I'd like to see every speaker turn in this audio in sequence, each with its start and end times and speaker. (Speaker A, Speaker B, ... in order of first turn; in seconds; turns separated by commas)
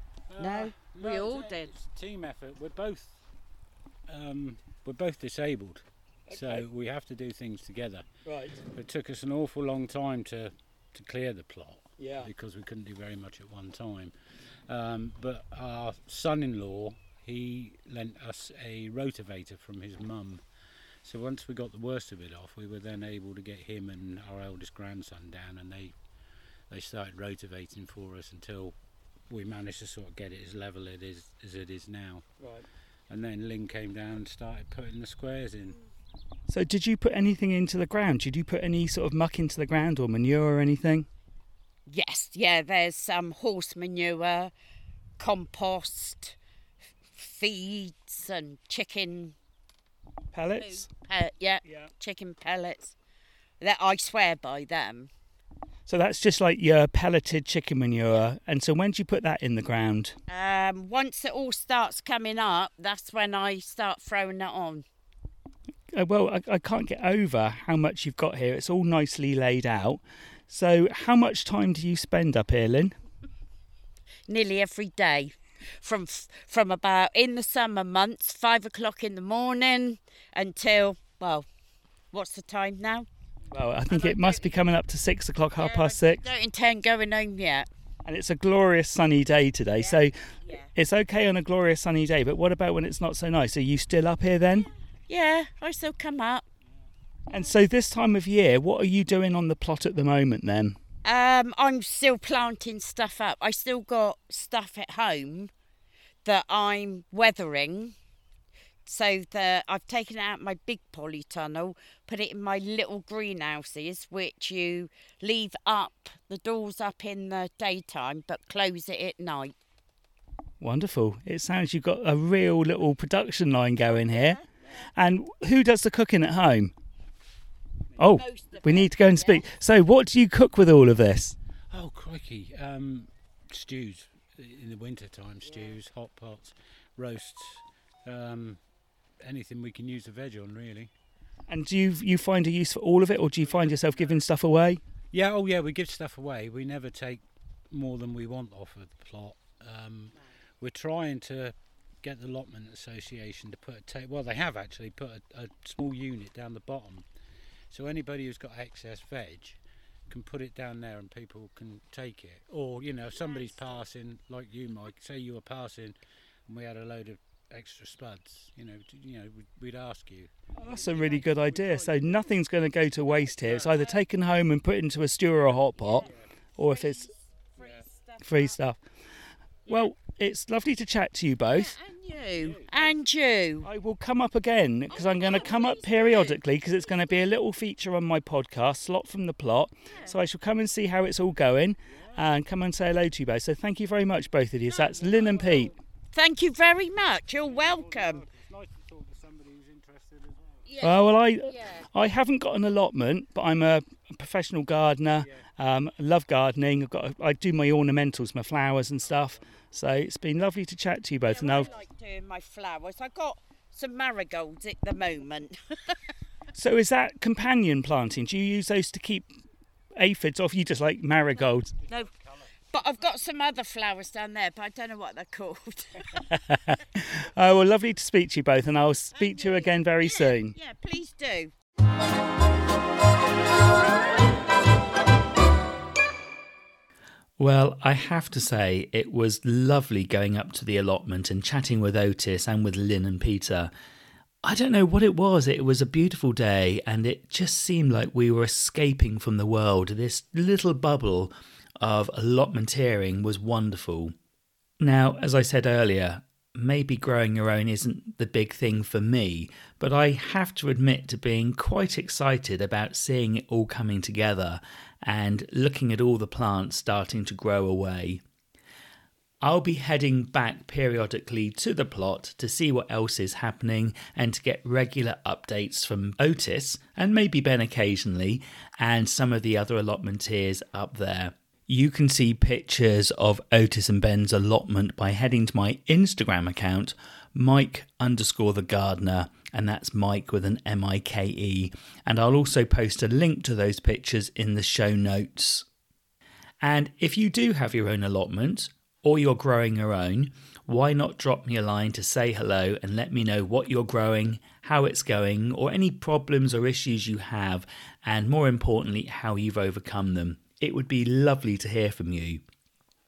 Speaker A: 0.3-3.2, Speaker B: 0.4-1.7, Speaker A: 4.1-8.1, Speaker C: 6.3-6.6, Speaker C: 8.3-8.6, Speaker A: 8.6-20.4, Speaker C: 12.0-12.3, Speaker A: 21.0-25.9, Speaker A: 26.7-28.8, Speaker A: 29.3-32.3, Speaker A: 33.1-35.8, Speaker C: 36.5-41.1, Speaker B: 41.9-44.5, Speaker B: 45.2-46.4, Speaker B: 47.2-49.4, Speaker C: 50.3-50.9, Speaker B: 50.6-53.0, Speaker B: 53.6-55.1, Speaker C: 55.9-60.1, Speaker B: 60.3-64.8, Speaker C: 66.0-72.9, Speaker B: 74.3-81.5, Speaker B: 82.1-83.1, Speaker C: 83.5-86.2, Speaker B: 83.9-84.5, Speaker B: 85.6-87.7, Speaker C: 88.0-90.1, Speaker B: 89.8-90.7, Speaker C: 90.8-94.7, Speaker B: 94.5-96.5, Speaker C: 97.3-100.8, Speaker B: 101.0-105.5, Speaker B: 106.2-108.0, Speaker B: 108.9-119.5, Speaker C: 120.6-124.4, Speaker B: 123.9-124.6, Speaker C: 125.0-126.7, Speaker C: 128.0-131.3, Speaker B: 128.1-129.5, Speaker A: 131.7-138.6, Speaker B: 135.4-135.8, Speaker A: 139.2-140.9, Speaker C: 141.5-144.8, Speaker A: 143.4-144.2, Speaker A: 145.1-157.1, Speaker A: 157.7-165.9, Speaker B: 163.2-163.8, Speaker A: 166.5-172.3, Speaker C: 170.6-176.1, Speaker B: 170.8-171.1, Speaker A: 173.1-174.0, Speaker B: 175.8-178.6, Speaker A: 175.9-176.3, Speaker C: 176.6-177.0, Speaker A: 177.6-177.8, Speaker C: 178.2-178.8, Speaker C: 179.7-181.7, Speaker B: 181.5-183.7, Speaker A: 182.3-183.0, Speaker C: 183.7-195.7, Speaker B: 184.9-186.4, Speaker B: 189.9-190.1, Speaker A: 191.9-192.3, Speaker B: 194.7-198.2, Speaker A: 194.8-195.7, Speaker A: 197.4-200.9, Speaker B: 200.7-201.9, Speaker C: 200.8-211.7, Speaker A: 205.2-205.5, Speaker A: 209.0-209.7, Speaker B: 211.2-216.0, Speaker A: 211.5-211.8, Speaker C: 216.6-219.3, Speaker C: 220.0-221.7, Speaker A: 221.3-223.1, Speaker B: 222.7-226.2, Speaker C: 227.3-230.5, Speaker B: 229.1-231.5, Speaker C: 237.4-243.7, Speaker C: 244.4-254.2, Speaker C: 254.8-268.2, Speaker C: 269.4-295.7, Speaker C: 296.6-312.4